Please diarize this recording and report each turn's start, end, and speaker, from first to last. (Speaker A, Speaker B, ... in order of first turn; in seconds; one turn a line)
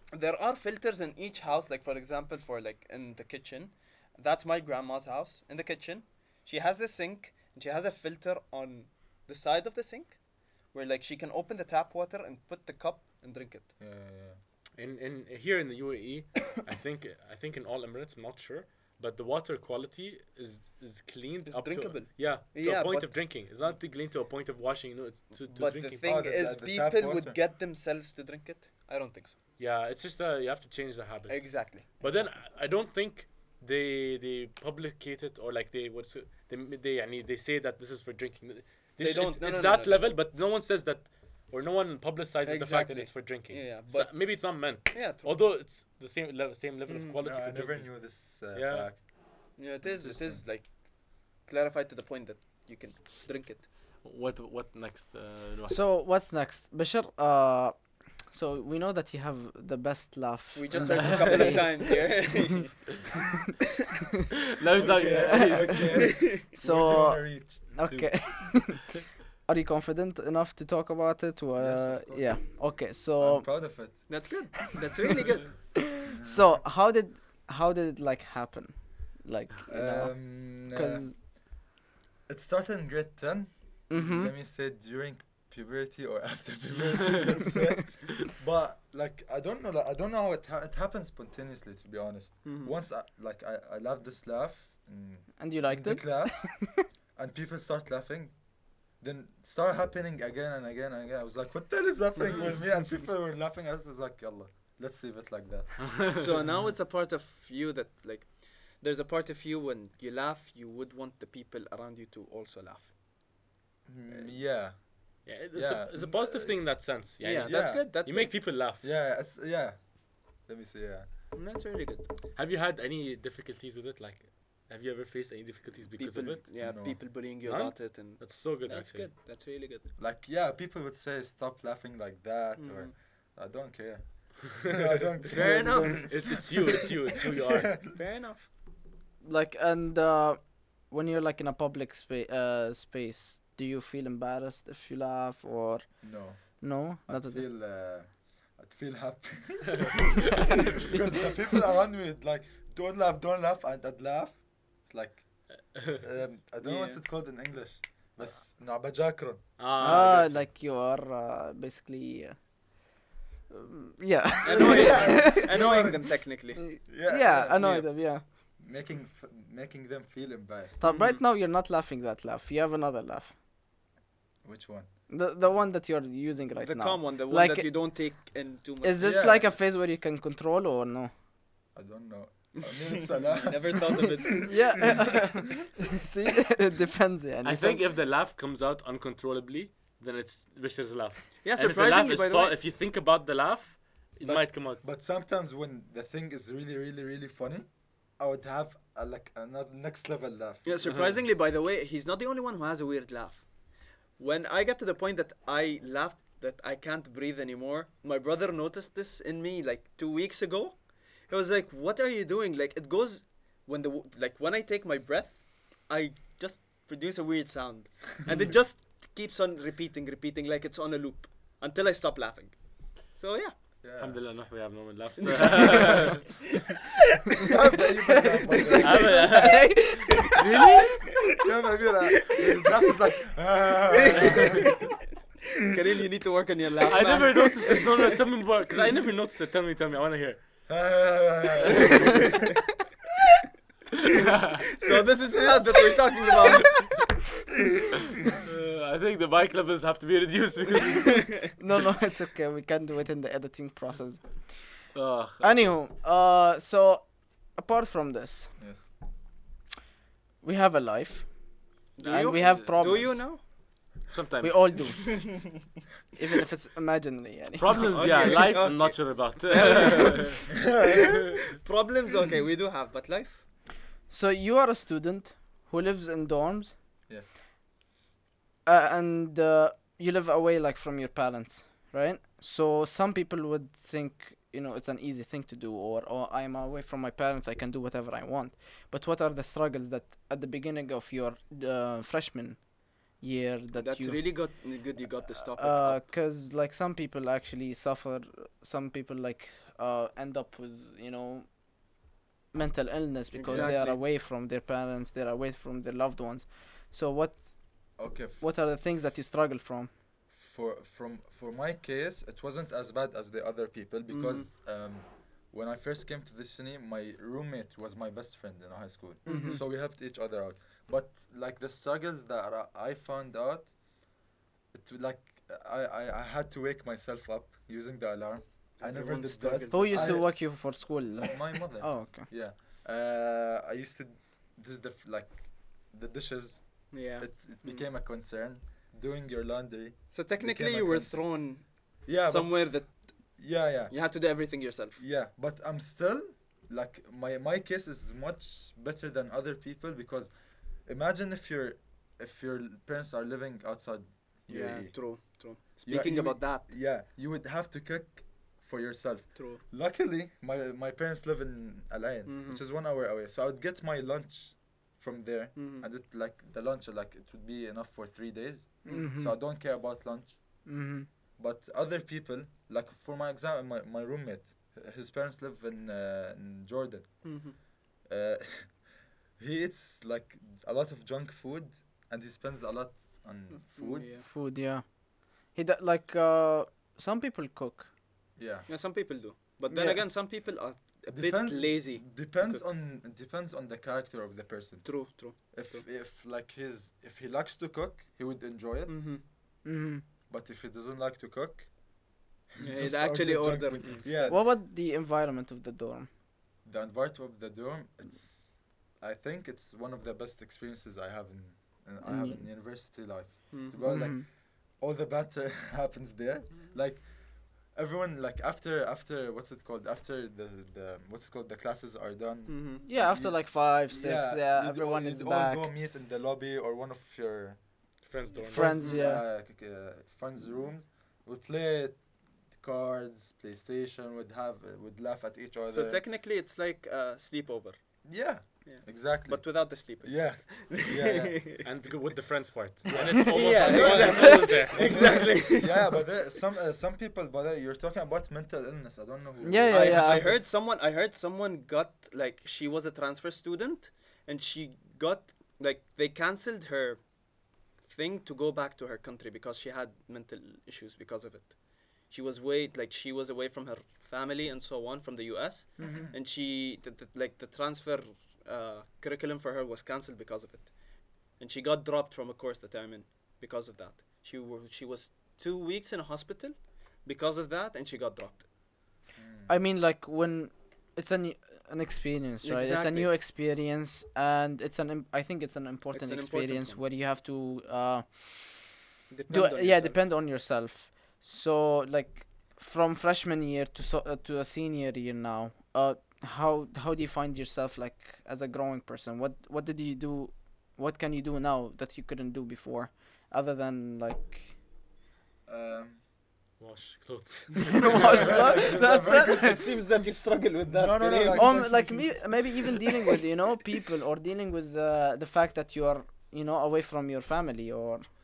Speaker A: 0.1-13.7
Speaker B: 13.8-14.4
Speaker C: 14.8-26.0
Speaker A: 21.5-23.7
Speaker A: 25.4-29.4
Speaker B: 26.0-27.4
Speaker C: 29.6-48.9
Speaker A: 31.3-32.4
Speaker A: 39.0-40.2
Speaker A: 42.5-45.3
Speaker A: 46.9-47.2
Speaker B: 47.2-50.4
Speaker A: 49.6-53.7
Speaker C: 54.0-55.8
Speaker D: 55.7-62.4
Speaker A: 60.5-62.9
Speaker C: 61.0-61.6
Speaker C: 64.6-66.2
Speaker B: 64.8-68.7
Speaker D: 65.1-73.6
Speaker A: 66.0-66.3
Speaker B: 71.5-72.7
Speaker B: 73.2-74.1
Speaker A: 74.1-75.7
Speaker D: 76.0-81.2
Speaker B: 76.1-76.6
Speaker B: 79.7-81.2
Speaker B: 82.3-106.7
Speaker D: 83.9-84.3
Speaker A: 92.4-92.7
Speaker D: 95.4-96.8
Speaker A: 106.1-112.9
Speaker B: 113.9-117.8
Speaker A: 114.1-114.3
Speaker C: 115.2-118.8
Speaker A: 117.2-118.3
Speaker B: 118.7-121.1
Speaker A: 121.3-122.1
Speaker C: 122.3-126.6
Speaker A: 126.0-129.9
Speaker B: 126.6-127.0
Speaker C: 127.2-129.1
Speaker B: 130.0-136.2
Speaker A: 132.6-132.9
Speaker A: 135.2-136.2
Speaker D: 135.3-136.0
Speaker C: 136.1-138.0
Speaker B: 137.4-137.9
Speaker A: 137.9-138.5
Speaker D: 139.2-147.4
Speaker B: 146.0-160.0
Speaker A: 156.6-157.0
Speaker C: 159.6-160.4
Speaker D: 159.8-162.4
Speaker D: 163.5-165.5
Speaker A: 164.4-166.6
Speaker B: 164.6-166.3
Speaker D: 166.6-168.2
Speaker B: 166.8-170.8
Speaker D: 170.8-173.3
Speaker A: 170.8-171.2
Speaker B: 174.4-174.9
Speaker D: 175.1-178.2
Speaker A: 176.6-179.2
Speaker D: 178.8-181.1
Speaker B: 179.0-179.5
Speaker B: 181.7-184.1
Speaker A: 182.6-184.8
Speaker D: 184.4-187.8
Speaker C: 187.4-194.8
Speaker A: 191.4-192.6
Speaker B: 194.2-200.8
Speaker A: 200.7-203.5
Speaker C: 200.8-201.2
Speaker A: 204.1-223.6
Speaker B: 223.8-224.2
Speaker C: 224.0-226.4
Speaker A: 225.2-226.3
Speaker B: 227.4-229.3
Speaker D: 228.1-230.7
Speaker C: 228.8-231.1
Speaker B: 231.4-234.7
Speaker A: 233.9-234.9
Speaker A: 235.6-238.2
Speaker C: 236.9-240.4
Speaker B: 240.7-242.3
Speaker A: 242.2-242.5
Speaker C: 244.1-244.6
Speaker A: 244.8-247.1
Speaker C: 246.7-247.0
Speaker C: 248.2-251.6
Speaker D: 251.6-254.8
Speaker C: 254.9-255.7
Speaker D: 255.4-258.5
Speaker B: 258.6-258.9
Speaker D: 260.4-261.3
Speaker D: 262.0-263.2
Speaker A: 262.0-263.4
Speaker C: 262.1-263.4
Speaker C: 264.1-265.1
Speaker D: 264.4-265.5
Speaker A: 265.2-265.4
Speaker D: 266.2-268.3
Speaker C: 267.6-270.5
Speaker A: 267.8-273.4
Speaker D: 274.1-276.7
Speaker D: 278.7-294.6
Speaker A: 293.8-296.0
Speaker D: 295.4-301.5
Speaker D: 302.5-309.9
Speaker A: 303.3-304.0
Speaker B: 303.5-303.8
Speaker B: 308.0-308.7
Speaker B: 310.3-323.7
Speaker A: 314.1-314.5
Speaker A: 319.2-319.6
Speaker D: 319.3-319.6
Speaker B: 324.7-370.7
Speaker A: 328.8-330.3
Speaker D: 329.7-332.3
Speaker A: 336.9-337.9
Speaker A: 340.1-345.0
Speaker A: 354.5-356.7
Speaker A: 359.4-359.6
Speaker A: 362.3-362.6
Speaker A: 365.6-365.9
Speaker D: 368.9-369.4
Speaker D: 370.6-371.1
Speaker B: 371.4-378.9
Speaker A: 377.2-377.6
Speaker B: 379.4-384.2
Speaker A: 383.5-384.3
Speaker D: 384.2-387.9
Speaker B: 388.4-388.7
Speaker A: 388.7-392.7
Speaker D: 389.7-390.1
Speaker B: 391.1-399.2
Speaker A: 394.8-395.8
Speaker A: 398.9-399.2
Speaker D: 399.6-400.0
Speaker B: 400.3-401.9
Speaker B: 402.5-404.4
Speaker A: 402.6-404.4
Speaker D: 404.3-406.1
Speaker B: 406.6-427.6
Speaker D: 412.0-412.5
Speaker A: 413.5-413.9
Speaker D: 413.8-414.3
Speaker A: 422.5-422.9
Speaker D: 422.9-425.7
Speaker C: 428.0-428.9
Speaker D: 428.5-429.3
Speaker B: 428.5-436.0
Speaker A: 428.7-429.0
Speaker A: 435.7-441.6
Speaker B: 438.1-441.4
Speaker C: 441.6-445.4
Speaker B: 442.9-450.4
Speaker A: 443.0-446.0
Speaker D: 449.4-450.4
Speaker A: 449.7-457.1
Speaker A: 457.8-478.5
Speaker D: 465.8-466.1
Speaker B: 465.8-466.1
Speaker B: 479.2-479.5
Speaker D: 479.5-488.7
Speaker A: 482.4-483.1
Speaker A: 485.9-486.8
Speaker A: 489.1-490.0
Speaker D: 489.3-504.5
Speaker B: 505.5-506.0
Speaker C: 506.6-508.4
Speaker D: 507.7-509.6
Speaker A: 507.9-511.9
Speaker B: 507.9-509.6
Speaker B: 510.7-512.3
Speaker D: 511.3-518.1